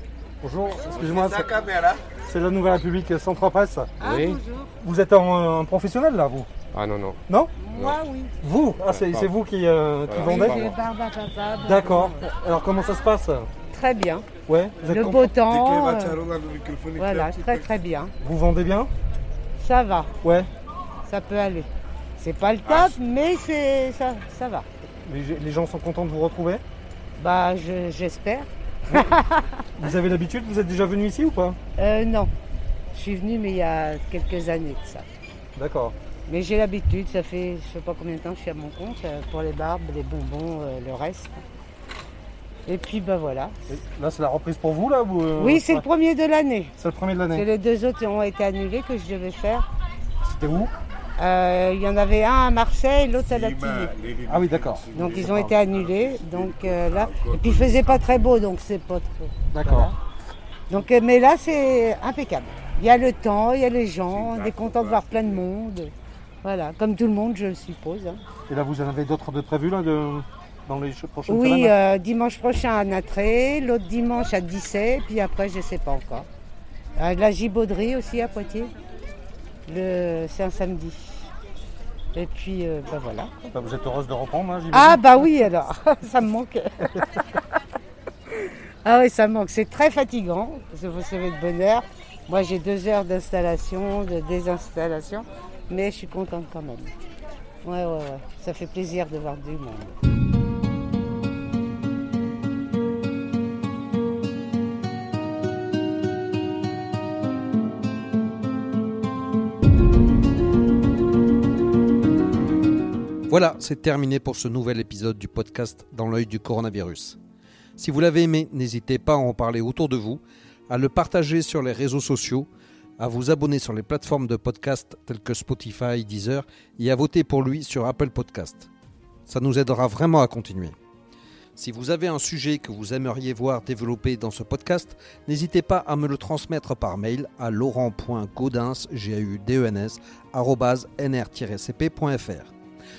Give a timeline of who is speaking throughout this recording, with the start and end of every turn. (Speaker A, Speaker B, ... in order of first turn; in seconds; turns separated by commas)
Speaker A: 0.4-1.6, Speaker A: 2.2-3.9, Speaker B: 4.0-4.4, Speaker A: 4.8-6.5, Speaker B: 6.7-7.2, Speaker C: 7.9-8.3, Speaker A: 8.4-10.6, Speaker B: 8.9-9.3, Speaker B: 10.1-10.7, Speaker D: 10.1-10.8, Speaker C: 10.3-11.7, Speaker A: 11.6-13.5, Speaker D: 13.9-14.2, Speaker A: 14.4-15.3, Speaker C: 15.0-15.5, Speaker D: 15.4-16.2, Speaker C: 17.0-17.5, Speaker D: 17.0-18.1, Speaker A: 18.2-18.9, Speaker D: 19.6-20.0, Speaker A: 20.2-20.5, Speaker D: 21.1-21.6, Speaker D: 22.2-24.6, Speaker A: 25.1-26.6, Speaker D: 27.2-28.5, Speaker A: 29.8-31.6, Speaker D: 31.8-32.3, Speaker D: 32.9-35.0, Speaker A: 35.6-36.0, Speaker D: 36.3-41.3, Speaker D: 42.7-43.4, Speaker A: 43.7-45.9, Speaker D: 45.4-46.5, Speaker C: 45.5-46.7, Speaker A: 46.8-47.5, Speaker D: 47.4-49.5, Speaker A: 50.3-50.7, Speaker D: 51.2-53.9, Speaker A: 54.2-54.9, Speaker D: 54.9-59.2, Speaker C: 55.0-55.9, Speaker C: 56.8-58.1, Speaker A: 59.5-59.9, Speaker D: 60.7-65.9, Speaker D: 66.4-68.1, Speaker A: 68.5-71.8, Speaker C: 71.3-71.7, Speaker D: 71.9-76.2, Speaker D: 77.0-78.7, Speaker D: 79.7-80.9, Speaker D: 82.2-83.1, Speaker C: 83.1-83.3, Speaker A: 83.5-85.5, Speaker C: 84.7-85.5, Speaker D: 85.5-86.5, Speaker D: 88.8-96.9, Speaker D: 97.7-99.9, Speaker C: 113.3-117.2, Speaker C: 117.8-122.5, Speaker C: 123.0-128.7, Speaker C: 129.3-130.8, Speaker C: 131.6-142.5